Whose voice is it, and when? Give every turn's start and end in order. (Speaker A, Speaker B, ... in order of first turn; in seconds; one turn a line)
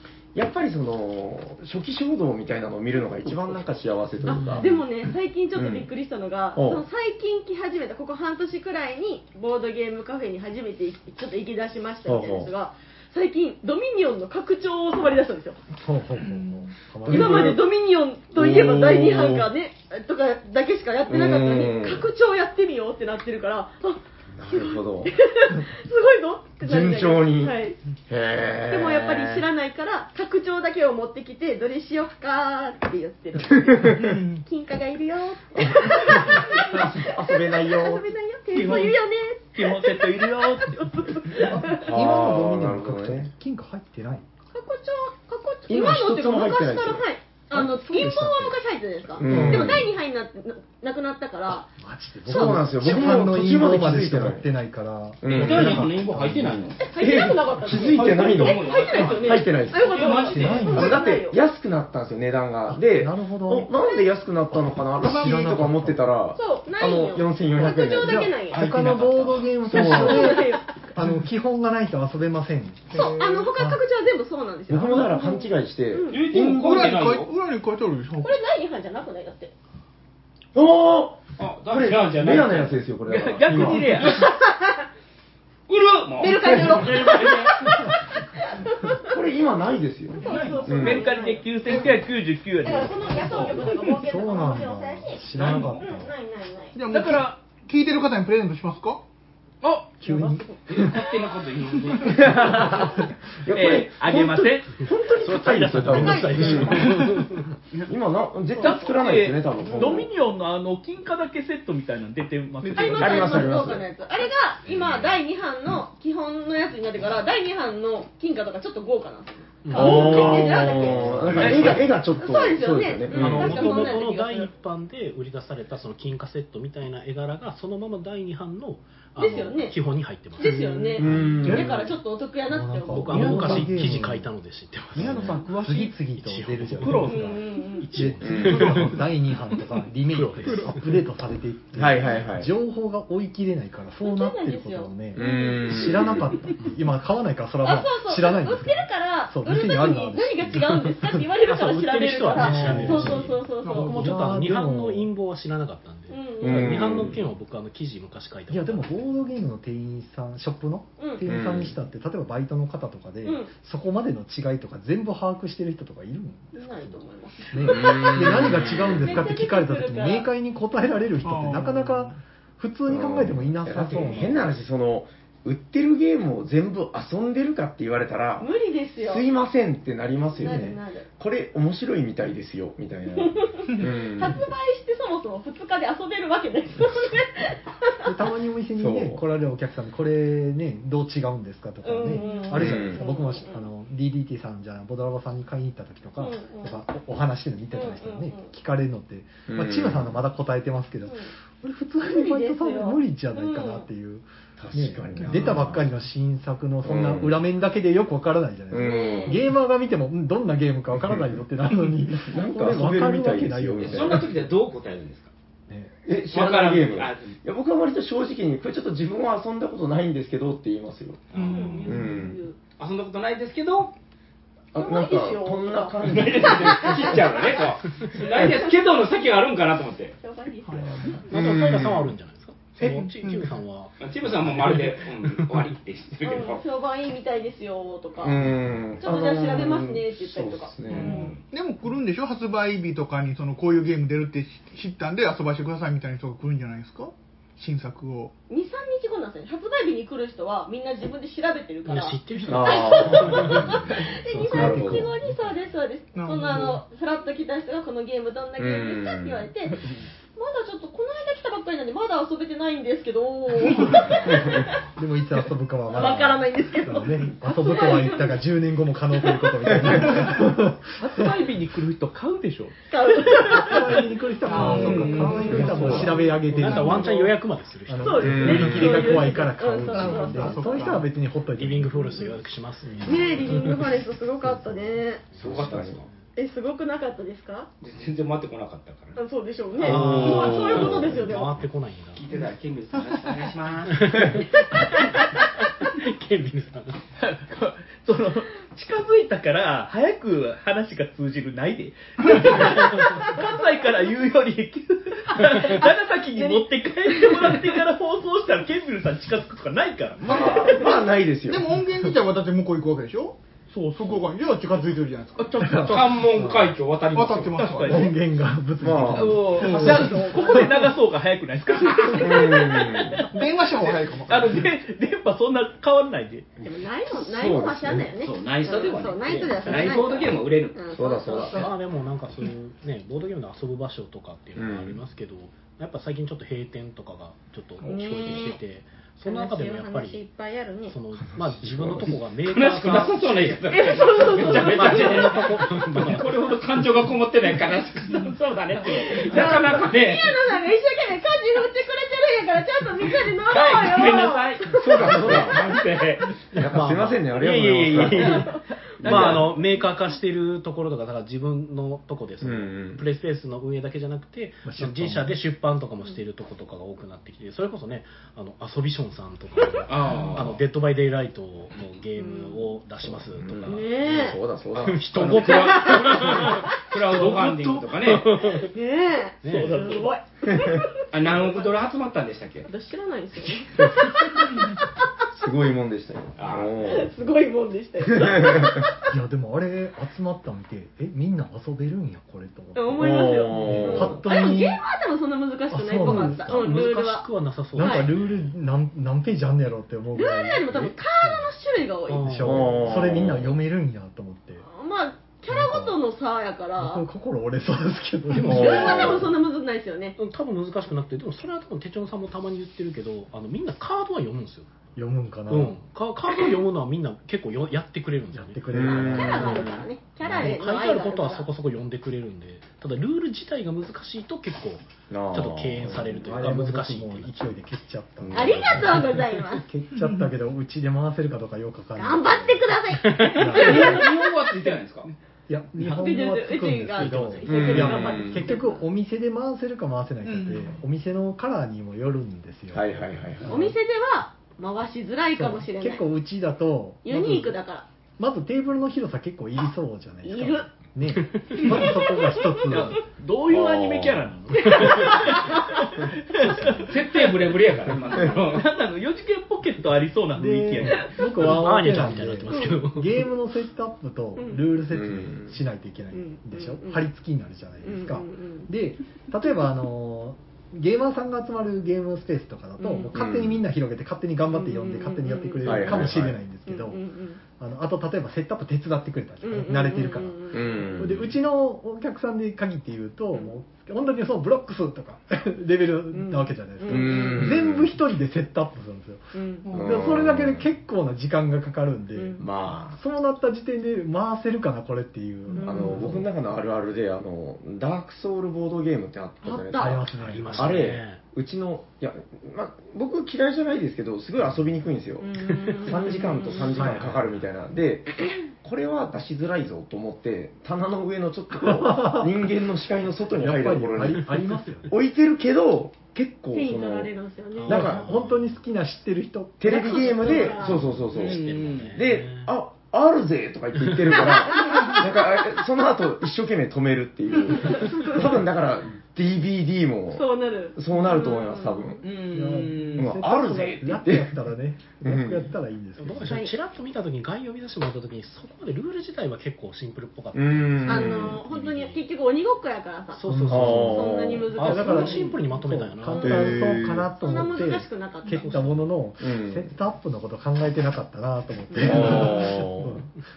Speaker A: 0.3-4.8
Speaker B: 4.2-15.6
Speaker A: 5.5-5.9
Speaker A: 6.5-6.8
Speaker A: 12.0-12.5
Speaker C: 15.7-17.6
Speaker D: 16.2-16.7
Speaker B: 17.0-27.8
Speaker A: 17.1-17.6
Speaker A: 18.3-19.5
Speaker A: 21.1-22.1
Speaker A: 24.4-25.1
Speaker A: 26.6-27.5
Speaker A: 28.1-29.5
Speaker B: 28.7-42.0
Speaker A: 35.5-38.1
Speaker E: 38.5-39.0
Speaker E: 39.5-41.5
Speaker C: 41.5-44.3
Speaker A: 41.8-43.3
Speaker B: 44.5-51.7
Speaker A: 45.7-47.1
Speaker C: 47.5-48.5
Speaker C: 49.1-49.9
Speaker A: 49.2-49.9
Speaker C: 51.8-56.6
Speaker A: 52.2-54.5
Speaker A: 55.2-68.3
Speaker F: 55.3-56.9
Speaker B: 56.8-61.4
Speaker F: 57.7-60.9
Speaker C: 60.3-61.0
Speaker C: 62.7-63.7
Speaker C: 65.0-66.1
Speaker B: 66.3-68.7
Speaker C: 67.6-73.0
Speaker F: 68.5-69.5
Speaker B: 69.7-70.8
Speaker A: 69.7-70.4
Speaker D: 72.9-73.5
Speaker B: 72.9-76.3
Speaker C: 73.5-73.8
Speaker A: 74.7-76.7
Speaker F: 76.1-77.3
Speaker D: 76.3-78.4
Speaker B: 78.2-79.5
Speaker A: 80.5-84.0
Speaker F: 81.4-82.8
Speaker E: 83.1-84.2
Speaker B: 84.1-84.6
Speaker F: 85.7-87.6
Speaker B: 86.2-89.2
Speaker A: 89.0-91.0
Speaker B: 90.1-91.9
Speaker F: 90.2-90.8
Speaker E: 90.7-93.6
Speaker B: 92.6-96.8
Speaker C: 93.6-96.1
Speaker F: 95.3-95.9
Speaker D: 96.7-99.0
Speaker E: 96.9-97.4
Speaker E: 99.6-100.4
Speaker C: 100.0-101.0
Speaker B: 100.2-101.0
Speaker F: 100.7-102.6
Speaker E: 102.0-102.9
Speaker A: 102.1-106.9
Speaker E: 103.5-104.8
Speaker G: 105.2-107.5
Speaker B: 105.9-106.9
Speaker E: 106.4-107.9
Speaker A: 107.8-110.1
Speaker E: 108.6-113.5
Speaker B: 109.6-110.0
Speaker D: 112.6-113.3
Speaker B: 112.7-124.5
Speaker A: 113.0-113.8
Speaker F: 114.7-115.2
Speaker G: 119.6-121.6
Speaker A: 119.7-123.9
Speaker D: 120.1-120.5
Speaker E: 121.4-121.8
Speaker G: 123.1-131.3
Speaker B: 129.2-129.8
Speaker B: 130.3-133.2
Speaker D: 130.4-130.8
Speaker A: 130.9-131.7
Speaker C: 131.1-131.6
Speaker E: 131.4-131.7
Speaker C: 132.5-134.3
Speaker G: 132.9-135.4
Speaker E: 133.1-133.8
Speaker E: 134.9-135.9
Speaker C: 134.9-151.2
Speaker G: 136.2-141.0
Speaker E: 136.8-137.2
Speaker B: 137.1-138.0
Speaker A: 138.2-138.8
Speaker A: 141.7-142.5
Speaker B: 144.0-146.5
Speaker A: 145.1-146.3
Speaker B: 147.6-154.0
Speaker G: 151.4-159.1
Speaker C: 152.3-155.1
Speaker D: 152.5-153.1
Speaker D: 153.6-154.1
Speaker B: 156.1-157.1
Speaker A: 156.4-157.2
Speaker C: 158.5-167.0
Speaker B: 161.0-161.2
Speaker A: 161.2-161.7
Speaker B: 163.2-163.5
Speaker B: 166.5-170.3
Speaker C: 167.5-174.4
Speaker A: 167.7-169.3
Speaker D: 171.2-172.2
Speaker A: 172.9-178.5
Speaker B: 178.4-179.2
Speaker A: 179.0-184.4
Speaker B: 180.3-181.1
Speaker C: 180.4-180.8
Speaker B: 183.1-188.3
Speaker C: 188.1-214.3
Speaker A: 188.7-189.2
Speaker B: 191.8-193.7
Speaker A: 192.5-193.1
Speaker B: 196.2-196.8
Speaker B: 197.7-198.5
Speaker A: 199.5-200.2
Speaker B: 202.0-203.9
Speaker A: 204.6-205.9
Speaker A: 206.8-207.4
Speaker A: 208.7-209.4
Speaker B: 208.7-209.5
Speaker A: 210.9-211.4
Speaker A: 212.3-214.3
Speaker F: 213.8-215.3
Speaker C: 215.7-215.9
Speaker A: 216.0-221.3
Speaker F: 216.3-217.3
Speaker F: 221.3-222.0
Speaker B: 221.4-222.5
Speaker D: 221.5-221.7
Speaker E: 221.5-222.1
Speaker A: 221.8-222.4
Speaker F: 222.8-223.9
Speaker A: 224.7-227.3
Speaker B: 224.7-227.5
Speaker F: 226.0-230.2
Speaker B: 228.1-229.0
Speaker B: 230.2-231.1
Speaker D: 230.7-230.9
Speaker A: 230.9-232.1
Speaker G: 231.3-235.7
Speaker D: 232.8-233.6
Speaker F: 234.0-236.6
Speaker B: 236.2-241.4
Speaker A: 238.2-241.3
Speaker D: 240.9-248.3
Speaker F: 241.0-241.3
Speaker B: 248.5-264.8
Speaker G: 251.8-253.9
Speaker A: 252.5-253.8
Speaker C: 254.3-255.6
Speaker A: 254.4-255.1
Speaker D: 256.1-256.8
Speaker A: 258.6-259.5
Speaker A: 264.3-264.7
Speaker C: 264.9-271.2
Speaker B: 265.9-268.4
Speaker B: 269.1-269.9
Speaker A: 269.7-270.0
Speaker E: 271.0-272.8
Speaker B: 272.9-276.1
Speaker C: 273.4-277.1
Speaker E: 274.5-277.2
Speaker D: 274.6-276.2
Speaker A: 275.4-276.1
Speaker G: 276.4-279.2
Speaker C: 277.9-282.0
Speaker B: 278.0-280.9
Speaker A: 278.2-279.1
Speaker D: 279.9-281.1
Speaker G: 281.5-283.8
Speaker B: 281.9-282.4
Speaker B: 283.0-285.3
Speaker C: 283.0-283.3
Speaker G: 285.3-286.2
Speaker A: 285.4-286.0
Speaker F: 285.4-286.1
Speaker B: 286.3-287.7
Speaker F: 287.8-289.2
Speaker B: 289.1-291.6
Speaker G: 289.8-292.2
Speaker A: 289.8-291.2
Speaker F: 292.1-294.4
Speaker G: 293.9-295.0
Speaker B: 294.7-295.2
Speaker G: 295.8-297.0
Speaker E: 297.2-310.7
Speaker B: 306.3-306.6
Speaker B: 307.2-307.6
Speaker D: 310.2-316.2
Speaker A: 310.3-311.8
Speaker E: 313.7-314.2
Speaker E: 315.4-315.9
Speaker C: 315.6-316.7
Speaker F: 315.8-317.8
Speaker D: 317.1-318.1
Speaker E: 317.5-318.1
Speaker C: 317.9-320.7
Speaker A: 318.8-319.5
Speaker E: 319.1-323.5
Speaker D: 319.4-320.4
Speaker B: 320.2-320.6
Speaker A: 322.1-323.2
Speaker D: 323.2-324.7
Speaker E: 324.3-326.5
Speaker B: 326.6-331.7
Speaker A: 327.1-328.1
Speaker F: 328.0-330.9
Speaker A: 330.9-331.6
Speaker G: 331.5-340.2
Speaker A: 334.5-335.0
Speaker B: 337.8-338.6
Speaker B: 339.2-341.0
Speaker G: 340.9-343.6
Speaker A: 341.2-342.2
Speaker F: 342.4-350.4
Speaker B: 343.7-345.7
Speaker G: 344.1-346.3
Speaker B: 348.8-355.4
Speaker F: 353.4-356.3
Speaker A: 354.7-355.6
Speaker A: 356.5-358.4
Speaker G: 356.5-378.7
Speaker E: 358.2-358.4
Speaker B: 358.2-358.6
Speaker E: 359.0-359.6
Speaker A: 359.1-359.4
Speaker A: 362.4-363.0
Speaker C: 364.6-365.4
Speaker F: 369.9-370.6
Speaker B: 372.1-372.8
Speaker A: 373.0-375.1
Speaker B: 373.6-374.4
Speaker F: 375.1-378.6
Speaker B: 375.4-376.7
Speaker B: 378.6-381.1
Speaker G: 379.4-379.9
Speaker E: 379.4-380.1
Speaker A: 380.5-380.8
Speaker F: 381.1-382.7
Speaker B: 382.6-384.8
Speaker A: 383.8-384.1
Speaker A: 385.3-387.1
Speaker F: 386.4-386.7
Speaker B: 386.8-388.9
Speaker A: 388.1-388.8
Speaker C: 389.1-394.8
Speaker B: 392.7-398.1
Speaker A: 392.9-394.2
Speaker C: 395.7-396.8
Speaker G: 396.1-398.5
Speaker C: 397.8-400.7
Speaker B: 400.1-402.3
Speaker G: 400.7-401.4
Speaker G: 402.1-403.1
Speaker C: 402.2-404.6
Speaker A: 402.4-403.5
Speaker B: 404.6-407.0
Speaker C: 405.5-406.0
Speaker C: 406.8-409.2
Speaker G: 408.3-409.1
Speaker A: 408.4-409.3
Speaker B: 408.4-410.2
Speaker G: 410.2-414.7
Speaker C: 414.9-415.8
Speaker G: 415.5-418.9
Speaker C: 418.3-420.6
Speaker A: 418.7-419.7
Speaker B: 418.9-421.5
Speaker G: 419.4-427.6
Speaker A: 425.1-426.2
Speaker C: 426.1-434.1
Speaker A: 428.2-429.1
Speaker B: 428.3-429.7
Speaker B: 431.9-434.2
Speaker G: 433.1-433.5
Speaker F: 433.5-435.1
Speaker C: 435.5-443.8
Speaker B: 435.8-438.9
Speaker G: 437.0-438.0
Speaker A: 437.4-438.5
Speaker D: 440.2-440.7
Speaker A: 442.7-443.6
Speaker B: 443.5-446.0
Speaker C: 445.3-447.6
Speaker B: 447.0-447.9
Speaker C: 448.2-452.9
Speaker B: 450.2-450.7
Speaker B: 451.6-452.8
Speaker E: 452.7-457.4
Speaker A: 453.5-454.2
Speaker B: 454.6-455.9
Speaker G: 456.4-456.8
Speaker F: 456.9-458.6
Speaker E: 458.3-461.1
Speaker C: 460.4-496.3
Speaker G: 461.4-463.3
Speaker B: 462.5-462.9
Speaker B: 464.4-464.7
Speaker A: 464.9-465.6
Speaker B: 466.1-467.1
Speaker B: 467.8-468.7
Speaker B: 472.8-473.1
Speaker A: 473.1-473.6
Speaker B: 474.5-476.1
Speaker A: 475.6-476.4
Speaker B: 476.6-477.4
Speaker B: 479.4-481.0
Speaker A: 480.5-481.3
Speaker B: 483.3-483.6
Speaker B: 486.1-487.6
Speaker A: 486.9-487.9
Speaker B: 489.3-489.8
Speaker A: 489.7-490.7
Speaker B: 492.1-492.4
Speaker A: 492.4-493.0
Speaker B: 495.5-496.1
Speaker A: 495.6-517.1
Speaker B: 499.4-500.1
Speaker C: 499.7-500.8
Speaker G: 500.1-501.2
Speaker B: 505.2-506.9
Speaker G: 506.7-507.3
Speaker C: 506.7-507.1
Speaker C: 511.6-512.3
Speaker C: 513.4-515.0
Speaker B: 516.5-517.9
Speaker G: 517.6-518.6
Speaker A: 517.6-518.1
Speaker C: 517.7-520.5
Speaker A: 519.6-532.0
Speaker B: 519.6-520.9
Speaker G: 520.7-522.5
Speaker E: 521.1-521.9
Speaker B: 524.3-525.1
Speaker B: 527.5-528.3
Speaker B: 530.1-532.0
Speaker E: 532.0-533.2
Speaker C: 532.3-536.4
Speaker A: 533.0-534.3
Speaker A: 535.0-535.5
Speaker G: 536.0-542.0
Speaker B: 536.2-536.5
Speaker A: 540.3-541.4
Speaker B: 540.8-545.5
Speaker G: 543.1-546.8
Speaker C: 543.2-553.1
Speaker A: 543.5-544.5
Speaker B: 546.1-546.5
Speaker A: 546.2-547.1
Speaker B: 547.1-548.8
Speaker G: 548.4-548.7
Speaker A: 549.2-549.8
Speaker B: 551.7-552.0
Speaker A: 551.8-553.0